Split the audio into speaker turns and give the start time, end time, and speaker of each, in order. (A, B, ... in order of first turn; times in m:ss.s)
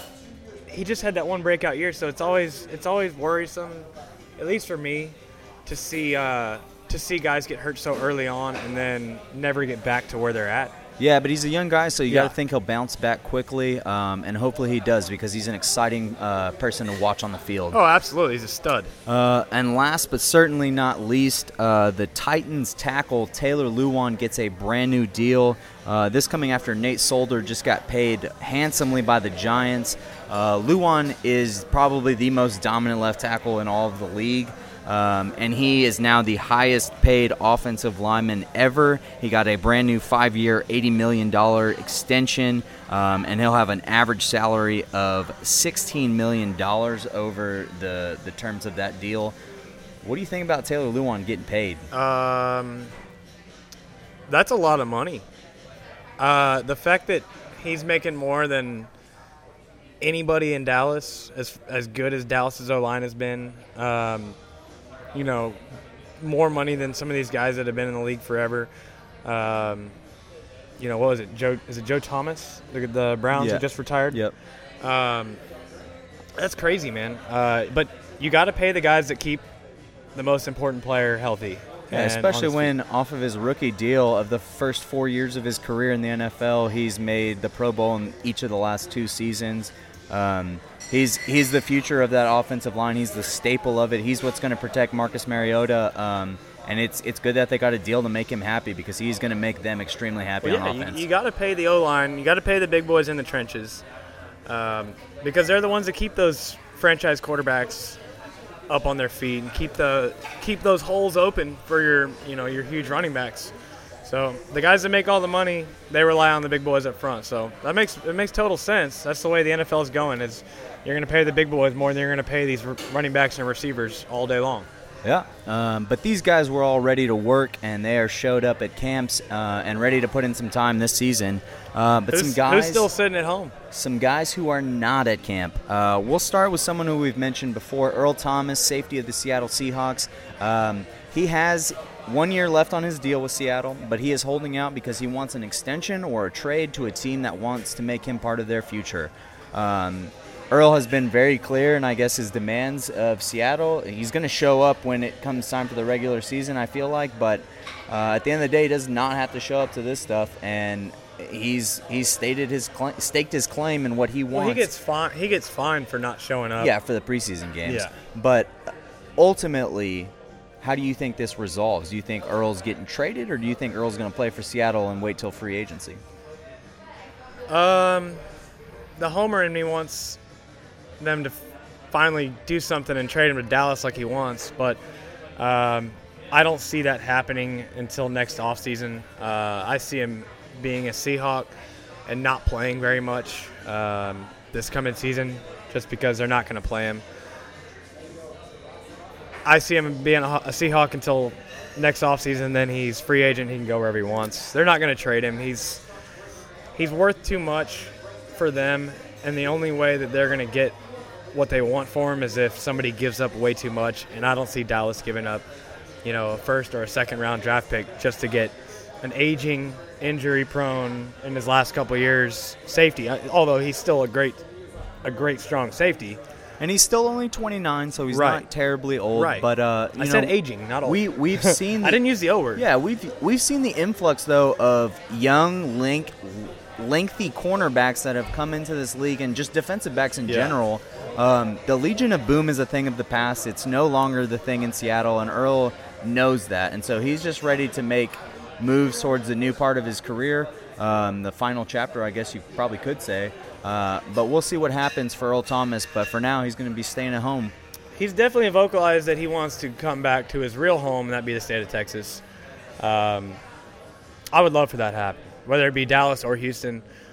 0:00.7-0:10.7 A
0:11.0-0:17.8 B
0:12.1-0:12.3 A
0:17.7-0:18.9 A
0:19.0-0:49.4 B
0:50.0-0:51.9 B
0:51.9-0:52.9 A
0:54.3-0:55.2 A
0:56.2-0:58.9 A
1:00.0-1:04.4 A
1:05.1-1:05.6 A
1:06.2-1:08.7 A
1:09.2-1:09.9 A
1:10.8-1:14.2 A
1:13.3-1:14.4 B
1:14.8-1:15.4 A
1:16.4-1:19.4 A
1:20.1-1:22.7 A
1:21.9-1:41.0 B
1:40.4-1:43.8 A
1:44.4-1:48.0 A
1:48.7-1:53.5 A
1:54.0-2:04.7 A
2:05.0-2:12.9 B
2:12.1-2:13.5 A
2:13.7-2:44.7 B
2:44.3-2:46.7 A
2:46.6-2:56.0 B
2:47.6-2:47.9 A
2:57.5-2:58.2 A
2:59.0-3:00.2 A
3:01.0-3:01.4 A
3:01.9-3:04.8 A
3:05.4-3:11.5 A
3:12.1-3:17.0 A
3:19.4-3:25.8 A
3:26.7-3:30.8 A
3:31.3-3:35.4 A
3:36.0-3:44.4 A
3:45.0-3:46.2 A
3:46.6-3:52.0 B
3:48.1-3:48.4 A
3:49.1-3:52.6 A
3:52.5-4:17.5 B
4:00.2-4:00.6 A
4:17.9-4:22.2 A
4:22.8-4:23.4 A
4:24.3-4:26.8 A